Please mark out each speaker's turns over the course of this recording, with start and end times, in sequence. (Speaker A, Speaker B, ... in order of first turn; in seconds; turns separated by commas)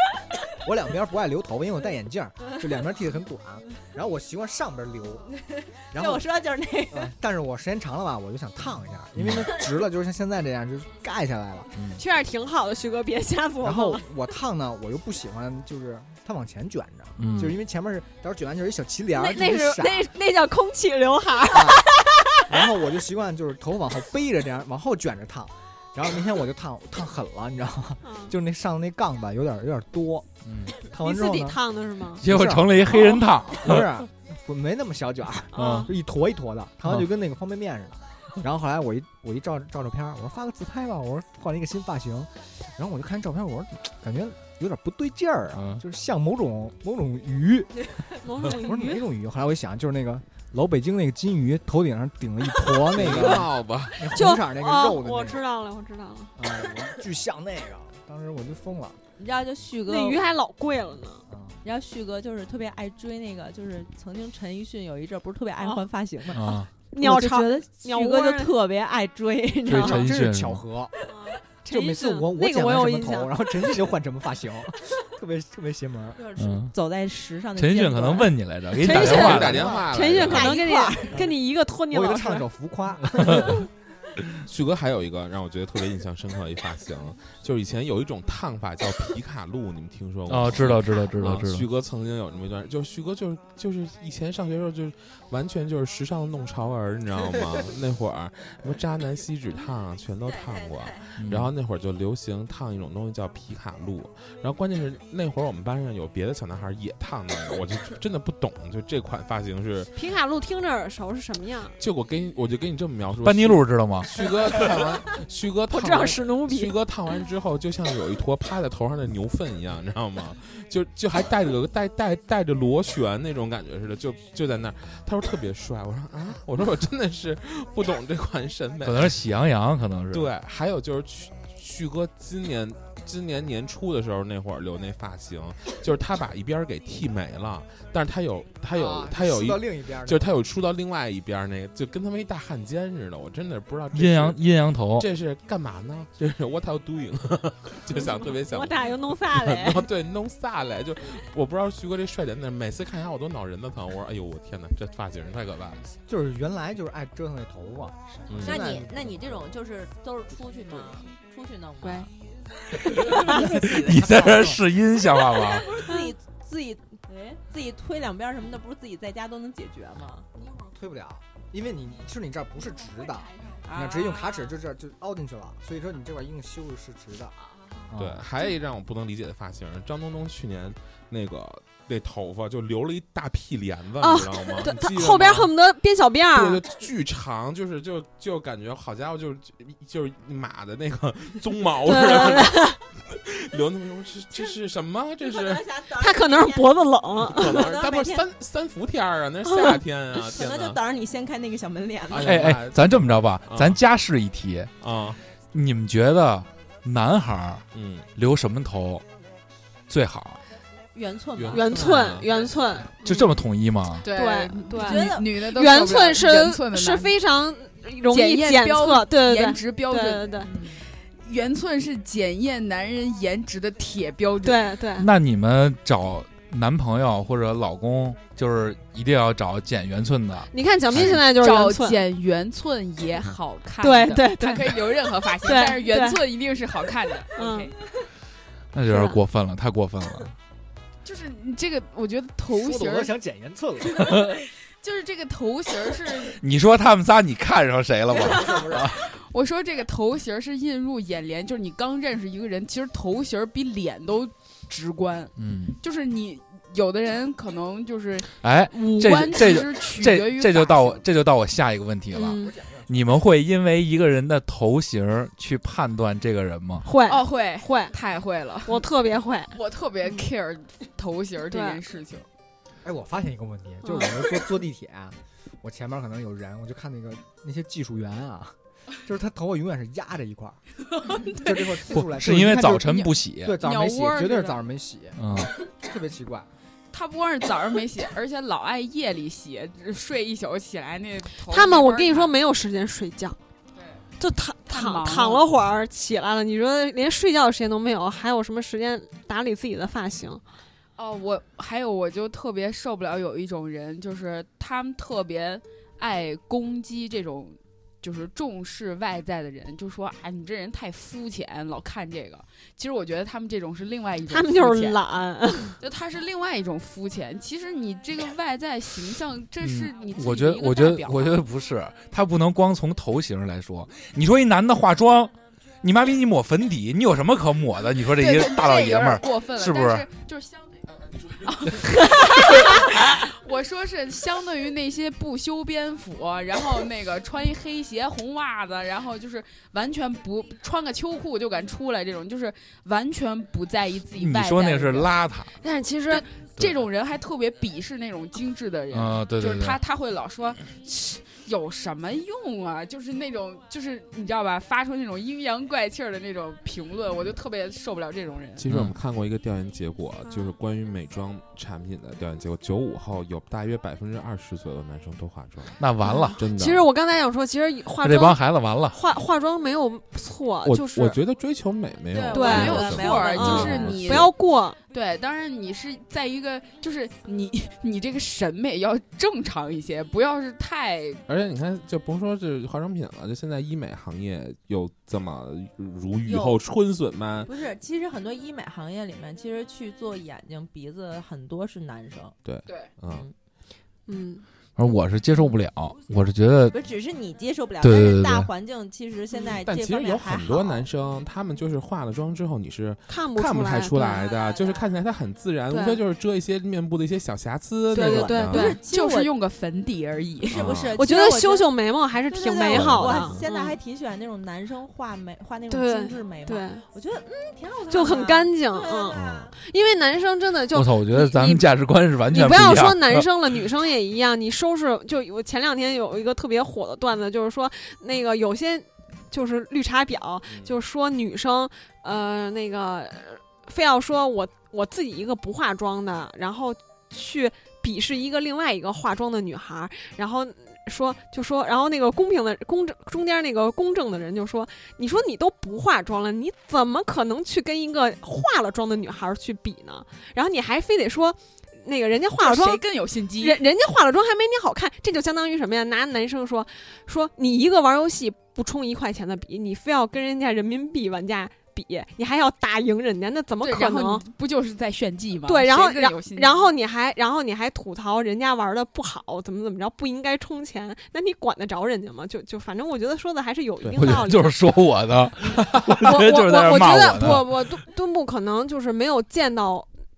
Speaker A: 0.5-5.2, Speaker B: 5.4-7.1, Speaker A: 5.9-6.3, Speaker A: 6.9-11.7, Speaker C: 9.2-9.5, Speaker C: 11.8-12.0, Speaker D: 11.9-14.0, Speaker A: 13.6-20.0, Speaker C: 17.2-17.6, Speaker D: 17.2-17.6, Speaker D: 19.1-22.4, Speaker A: 21.5-21.9, Speaker A: 22.4-31.6, Speaker D: 28.0-28.3, Speaker C: 30.4-30.7, Speaker D: 31.0-32.2, Speaker A: 32.2-55.4, Speaker C: 32.2-33.9, Speaker D: 35.5-35.9, Speaker C: 35.6-35.9, Speaker C: 45.5-45.8, Speaker D: 48.2-49.0, Speaker E: 52.9-54.1, Speaker D: 54.1-56.4, Speaker A: 56.4-59.0, Speaker B: 59.2-60.2, Speaker D: 59.9-61.2, Speaker A: 61.3-61.6, Speaker B: 61.6-70.0, Speaker C: 66.3-66.7, Speaker D: 66.9-68.5, Speaker C: 69.7-70.6, Speaker A: 69.8-70.9, Speaker D: 71.0-73.7, Speaker A: 71.7-76.2, Speaker B: 76.2-78.4, Speaker C: 76.4-76.7, Speaker C: 77.6-79.7, Speaker D: 78.8-82.5, Speaker E: 78.9-80.6, Speaker B: 79.0-81.2, Speaker A: 81.1-81.4, Speaker A: 81.9-83.7, Speaker C: 83.2-83.6, Speaker E: 84.2-109.9, Speaker C: 90.3-91.7, Speaker C: 101.2-101.5, Speaker D: 109.9-111.8, Speaker E: 111.8-129.2, Speaker C: 113.2-114.1, Speaker D: 115.7-116.8, Speaker C: 128.8-130.3, Speaker E: 130.1-144.4, Speaker A: 138.7-140.4, Speaker C: 143.9-145.1, Speaker E: 144.9-155.9, Speaker D: 147.9-149.9, Speaker A: 156.1-159.2, Speaker E: 158.3-158.7, Speaker B: 158.4-162.1, Speaker D: 161.8-162.1, Speaker B: 162.9-163.7, Speaker A: 163.0-164.6, Speaker C: 163.5-165.7, Speaker B: 165.6-170.3, Speaker D: 165.8-166.1, Speaker A: 170.4-177.3, Speaker B: 173.6-174.5, Speaker A: 177.9-178.2, Speaker E: 177.9-185.5, Speaker D: 184.0-186.6, Speaker E: 186.3-195.7, Speaker D: 191.8-192.8, Speaker B: 195.2-196.8, Speaker D: 196.0-197.6, Speaker E: 197.2-200.8, Speaker B: 197.3-198.2, Speaker D: 199.4-199.8, Speaker B: 200.1-202.4, Speaker E: 202.1-203.8, Speaker C: 202.2-204.7, Speaker E: 204.8-205.2, Speaker C: 205.5-207.6, Speaker E: 207.7-208.1, Speaker C: 208.2-209.1, Speaker C: 209.9-210.4, Speaker B: 210.9-211.8, Speaker E: 211.4-212.5, Speaker D: 211.5-213.3, Speaker C: 213.1-214.1, Speaker F: 214.0-217.1, Speaker D: 214.1-220.5, Speaker B: 214.8-215.2, Speaker F: 218.1-224.7, Speaker D: 224.4-225.1, Speaker C: 225.0-231.2, Speaker D: 230.5-232.0, Speaker F: 231.3-237.7, Speaker D: 233.8-236.2, Speaker D: 237.3-237.7, Speaker C: 238.7-240.3, Speaker D: 238.9-239.2, Speaker F: 241.0-243.1, Speaker A: 242.5-244.2, Speaker F: 244.8-246.4, Speaker C: 246.3-249.0, Speaker A: 248.1-248.9, Speaker F: 249.2-261.0, Speaker C: 255.4-255.8, Speaker C: 258.4-266.9, Speaker D: 262.1-262.6, Speaker D: 266.9-267.9, Speaker F: 267.1-268.8, Speaker D: 268.6-270.2, Speaker F: 269.5-272.2, Speaker D: 271.5-271.8, Speaker A: 272.8-286.5, Speaker D: 273.8-274.5, Speaker F: 281.1-281.6, Speaker C: 281.9-283.6, Speaker F: 282.7-284.6, Speaker C: 285.2-285.5, Speaker F: 286.9-292.3, Speaker D: 291.5-293.4, Speaker F: 293.7-294.0, Speaker D: 294.2-300.4, Speaker F: 294.7-295.4, Speaker F: 301.0-315.0, Speaker D: 314.3-315.8, Speaker F: 315.8-321.4, Speaker C: 319.6-330.1, Speaker F: 328.1-345.1, Speaker C: 344.1-345.5, Speaker D: 345.6-346.2, Speaker F: 346.1-358.6, Speaker C: 348.9-349.8, Speaker E: 358.6-365.8, Speaker C: 358.7-358.9, Speaker C: 365.8-366.4, Speaker D: 366.0-371.2, Speaker E: 366.4-366.9, Speaker C: 368.0-369.0, Speaker E: 370.6-374.3, Speaker B: 372.1-374.0, Speaker F: 372.3-374.3, Speaker D: 372.3-374.8, Speaker F: 374.9-381.2, Speaker E: 381.3-387.5, Speaker B: 386.2-386.6, Speaker B: 387.4-392.4, Speaker E: 392.4-393.3, Speaker B: 393.1-393.3, Speaker D: 394.1-394.4, Speaker C: 394.8-396.7, Speaker B: 396.7-400.9, Speaker C: 397.8-398.5, Speaker E: 399.6-408.8, Speaker D: 403.1-404.2, Speaker B: 403.9-404.9, Speaker D: 405.7-406.0, Speaker D: 407.9-408.8, Speaker B: 407.9-409.3, Speaker F: 408.8-410.7, Speaker E: 410.5-411.0, Speaker B: 410.5-411.7, Speaker D: 410.9-413.8, Speaker B: 412.3-419.5, Speaker E: 412.7-413.4, Speaker D: 415.7-416.8, Speaker D: 417.9-421.7, Speaker E: 419.1-419.5, Speaker C: 420.7-423.3, Speaker D: 422.3-452.8, Speaker E: 430.5-430.7, Speaker F: 452.4-453.6, Speaker D: 453.4-464.2, Speaker F: 463.6-466.7, Speaker D: 465.4-474.6, Speaker C: 473.9-477.5, Speaker D: 476.0-479.9